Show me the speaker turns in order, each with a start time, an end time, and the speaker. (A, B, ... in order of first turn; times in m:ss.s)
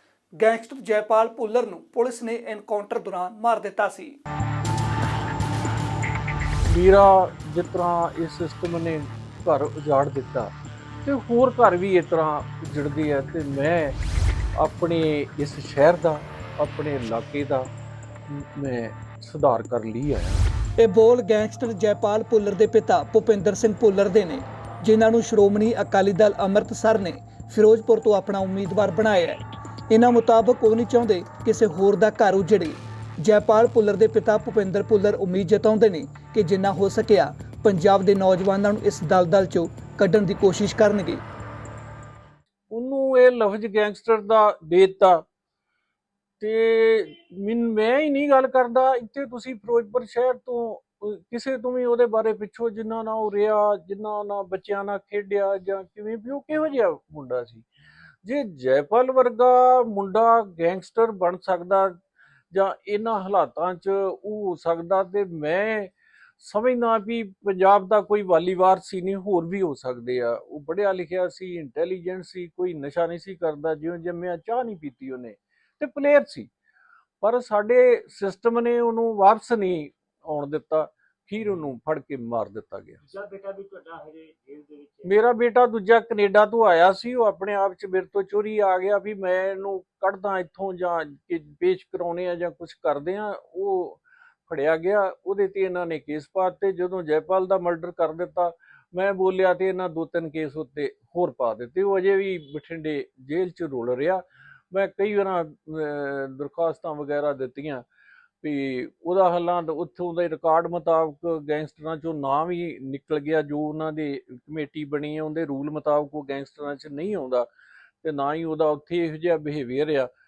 0:00.4-0:04.2 A
0:06.7-0:10.5 B
0:11.0-0:14.0 B
0:14.6-0:17.7 B
0:18.3-0:20.4 B
0:20.8-0:41.2 A
0:42.7-0:45.2 B
0:46.4-0:57.6 B
0:58.2-1:01.9 B
1:02.5-1:16.5 B
1:17.2-1:23.0 B
1:23.1-1:25.1 C
1:25.0-1:47.8 B
1:48.4-1:57.5 B
1:58.0-2:00.1 B